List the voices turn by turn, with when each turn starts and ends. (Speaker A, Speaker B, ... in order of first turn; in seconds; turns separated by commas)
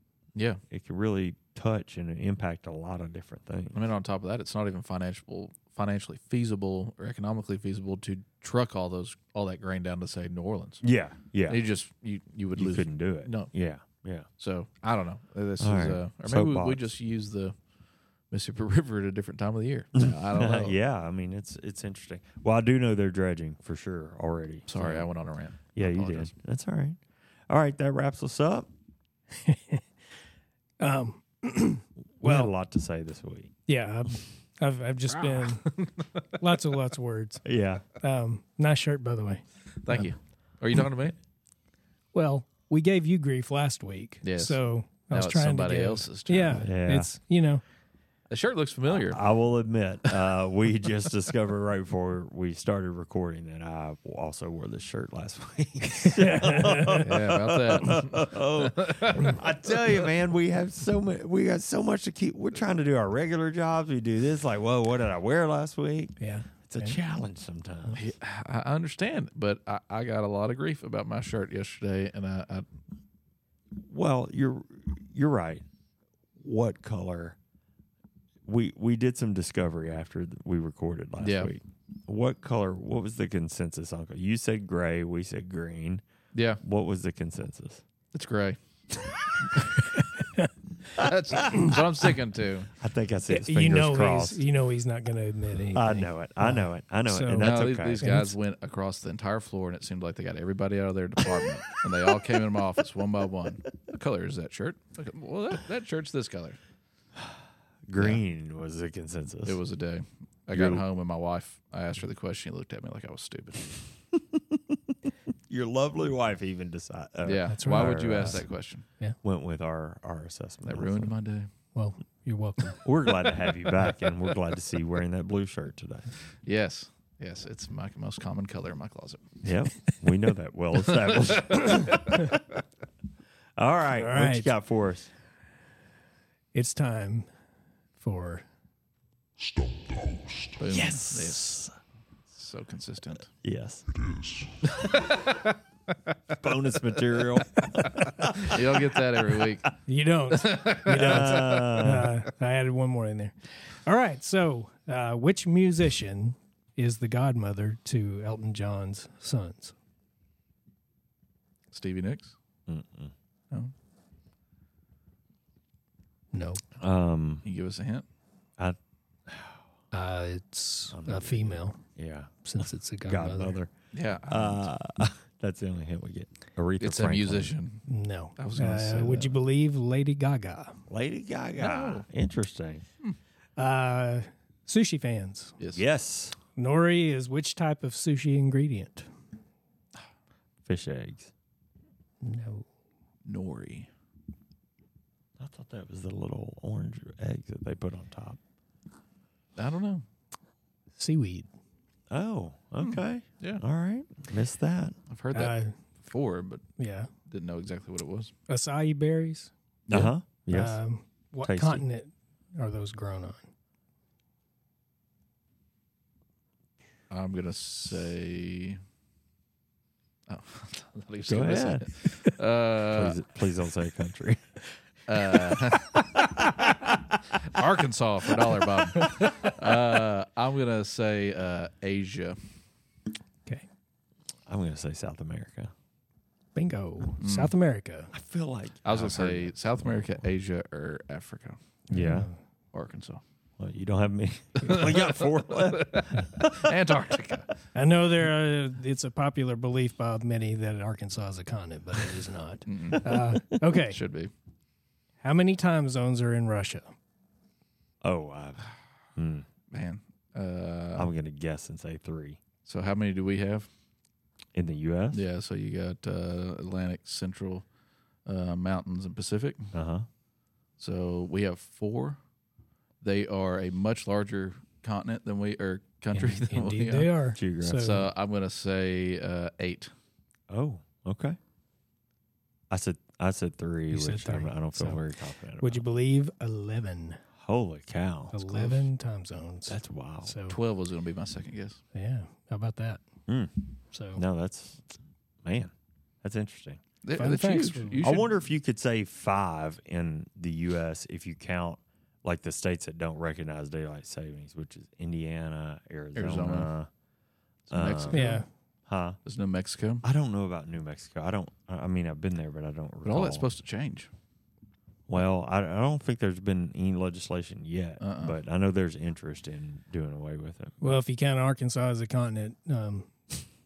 Speaker A: 0.4-0.6, Speaker B: 0.7-3.8, Speaker A: 3.7-10.8, Speaker B: 10.8-11.6, Speaker A: 11.5-13.5, Speaker B: 12.6-14.3, Speaker A: 14.4-17.6, Speaker B: 15.6-16.9, Speaker A: 18.3-20.8, Speaker B: 20.0-25.1, Speaker A: 24.7-26.3, Speaker B: 25.8-27.0, Speaker B: 27.5-28.7, Speaker C: 29.4-29.8, Speaker C: 30.8-32.5, Speaker B: 32.2-33.5, Speaker C: 33.7-39.4, Speaker A: 35.4-35.9, Speaker B: 37.5-37.9, Speaker A: 39.8-41.2, Speaker C: 42.1-47.6, Speaker A: 44.2-46.6, Speaker B: 46.6-47.1, Speaker A: 48.3-49.2, Speaker B: 48.9-68.0, Speaker C: 56.0-57.2, Speaker A: 57.0-60.1, Speaker C: 66.2-67.0, Speaker A: 68.0-72.7, Speaker B: 73.8-75.6, Speaker B: 76.4-77.4, Speaker B: 78.5-86.0, Speaker A: 81.2-81.5, Speaker A: 86.3-86.6, Speaker B: 86.6-87.8, Speaker A: 88.1-88.6, Speaker A: 91.0-92.7, Speaker B: 91.0-91.7, Speaker B: 92.8-94.4, Speaker C: 93.3-97.5, Speaker B: 95.7-98.0, Speaker A: 97.3-106.6, Speaker C: 98.0-98.3, Speaker B: 101.4-101.8, Speaker B: 107.9-109.6, Speaker A: 109.5-113.8, Speaker B: 110.5-110.8, Speaker B: 114.2-114.8, Speaker B: 115.5-118.4, Speaker A: 117.2-118.8, Speaker C: 117.5-118.4, Speaker B: 119.2-121.1, Speaker A: 120.7-121.5, Speaker C: 121.8-122.8, Speaker B: 122.8-126.1, Speaker A: 126.5-129.4, Speaker B: 129.4-132.4, Speaker A: 131.0-132.0, Speaker B: 133.6-135.1, Speaker C: 134.0-134.5, Speaker C: 136.5-137.3, Speaker C: 138.0-138.4, Speaker A: 140.6-141.7, Speaker B: 140.7-141.7, Speaker A: 142.3-143.3, Speaker B: 143.4-143.9, Speaker A: 144.7-145.5, Speaker B: 144.8-145.1, Speaker B: 146.3-149.7, Speaker A: 148.3-149.7, Speaker C: 149.9-159.8, Speaker A: 150.3-151.7, Speaker B: 150.9-152.1, Speaker A: 161.7-162.4, Speaker B: 162.7-163.1, Speaker C: 166.3-166.6, Speaker B: 166.8-167.4, Speaker A: 167.4-168.1, Speaker B: 168.6-169.6, Speaker C: 169.9-171.8, Speaker B: 170.9-172.4, Speaker C: 172.4-173.6, Speaker B: 173.1-173.7, Speaker A: 173.9-174.7, Speaker B: 174.3-177.5, Speaker A: 176.8-177.9, Speaker C: 177.9-180.8, Speaker A: 178.4-179.4, Speaker B: 180.9-182.8, Speaker A: 181.6-182.1, Speaker C: 183.6-185.6, Speaker B: 185.7-186.4, Speaker C: 186.6-189.1, Speaker B: 190.7-191.3, Speaker C: 192.2-192.7, Speaker A: 193.3-193.9, Speaker B: 195.4-198.4, Speaker A: 199.6-200.1, Speaker C: 200.9-201.5, Speaker B: 202.1-204.9, Speaker A: 202.8-203.6, Speaker A: 205.1-206.7, Speaker C: 205.3-205.7, Speaker C: 206.8-207.1, Speaker A: 207.3-208.3, Speaker C: 208.5-209.5, Speaker B: 209.9-210.8, Speaker C: 210.5-213.5, Speaker B: 211.4-211.8, Speaker A: 217.1-218.8, Speaker A: 220.3-223.2, Speaker B: 221.3-221.9, Speaker B: 222.9-224.6, Speaker A: 225.1-226.0, Speaker B: 225.2-227.2, Speaker A: 227.3-232.4, Speaker B: 228.5-229.1, Speaker B: 234.5-235.7, Speaker C: 236.6-238.2, Speaker A: 237.2-237.5, Speaker B: 238.1-240.2, Speaker A: 238.8-241.6, Speaker C: 241.9-242.3, Speaker B: 241.9-242.3, Speaker A: 242.7-243.2, Speaker B: 243.6-246.8, Speaker A: 244.6-247.5, Speaker C: 247.7-254.0, Speaker A: 252.7-254.3, Speaker C: 255.2-256.9, Speaker B: 258.0-259.5, Speaker A: 259.7-261.1, Speaker B: 260.9-262.4, Speaker A: 262.6-263.7, Speaker B: 264.6-265.2, Speaker A: 265.1-267.6, Speaker A: 268.3-269.7, Speaker B: 269.7-270.1, Speaker A: 270.8-272.2, Speaker A: 273.0-277.1, Speaker C: 276.1-278.1, Speaker B: 277.4-277.9, Speaker A: 277.7-279.9, Speaker B: 280.5-281.4, Speaker B: 282.7-285.9, Speaker C: 283.9-285.1, Speaker C: 285.6-287.2, Speaker B: 287.4-288.4, Speaker C: 288.3-290.6, Speaker B: 289.7-290.4, Speaker A: 290.4-291.8, Speaker C: 291.9-293.0, Speaker B: 293.3-294.9, Speaker C: 293.9-294.2, Speaker B: 295.4-295.7, Speaker B: 296.2-296.8, Speaker A: 297.0-298.3, Speaker C: 297.2-298.1, Speaker B: 298.0-306.9, Speaker A: 306.1-306.7, Speaker A: 307.7-308.4, Speaker B: 307.7-308.3, Speaker C: 308.1-308.5, Speaker B: 308.9-309.2, Speaker A: 309.2-310.0, Speaker B: 310.0-313.5, Speaker A: 313.1-314.1, Speaker B: 315.1-321.0, Speaker A: 318.0-318.4, Speaker C: 320.8-323.4